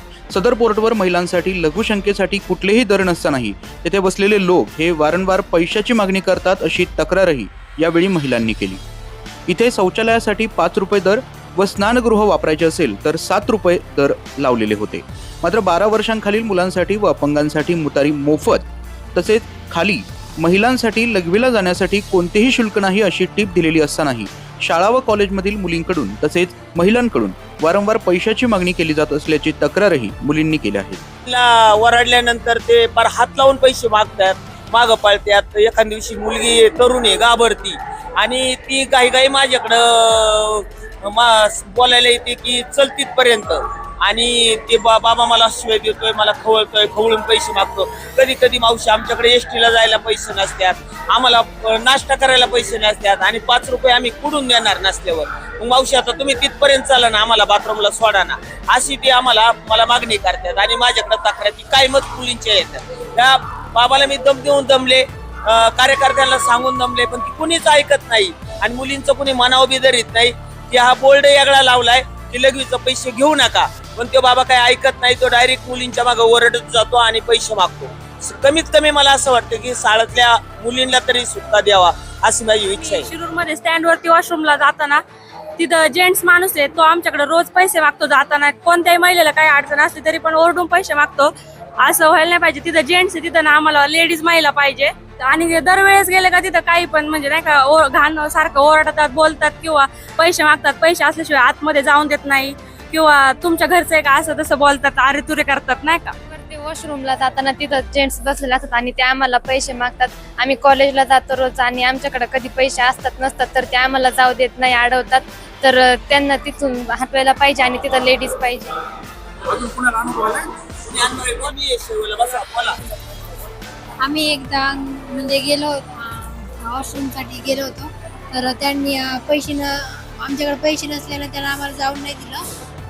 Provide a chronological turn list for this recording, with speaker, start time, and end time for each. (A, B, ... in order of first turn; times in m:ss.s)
0:00.3-0:08.8 A
0:09.5-0:31.0 A
0:31.3-1:23.1 B
1:22.7-1:25.0 C
1:25.6-1:46.2 C
1:46.3-1:58.7 D
1:59.5-2:02.8 B
2:04.0-2:12.4 E